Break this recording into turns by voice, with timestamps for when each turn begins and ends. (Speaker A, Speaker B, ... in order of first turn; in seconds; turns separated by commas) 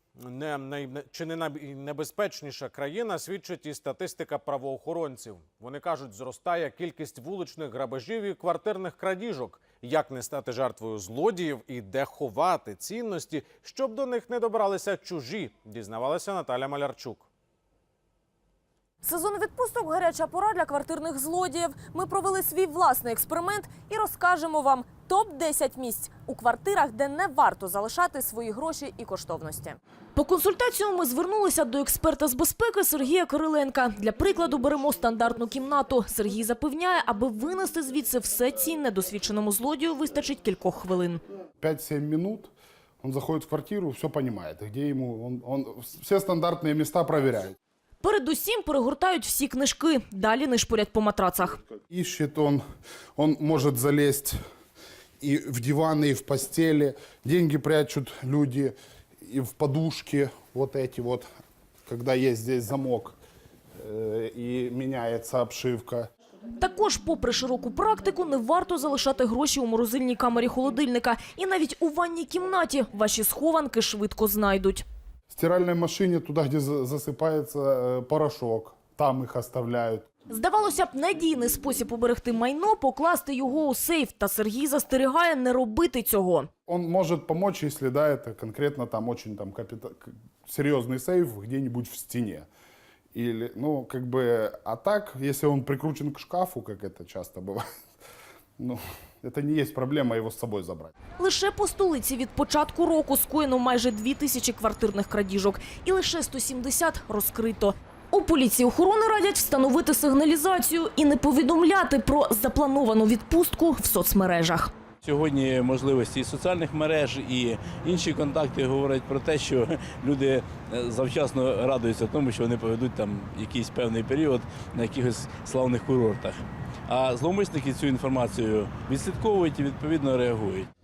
Speaker A: 0.2-17.3, Speaker B: 19.0-41.2, Speaker C: 41.6-47.6, Speaker B: 48.0-51.6, Speaker C: 51.9-52.6, Speaker C: 53.2-54.4, Speaker C: 55.2-61.2, Speaker C: 61.9-63.2, Speaker C: 63.8-66.1, Speaker B: 66.6-74.8, Speaker C: 75.3-80.1, Speaker B: 80.3-86.5, Speaker C: 86.7-92.5, Speaker C: 93.1-97.6, Speaker C: 98.6-100.9, Speaker B: 101.2-114.7, Speaker D: 115.0-126.4, Speaker D: 126.9-130.7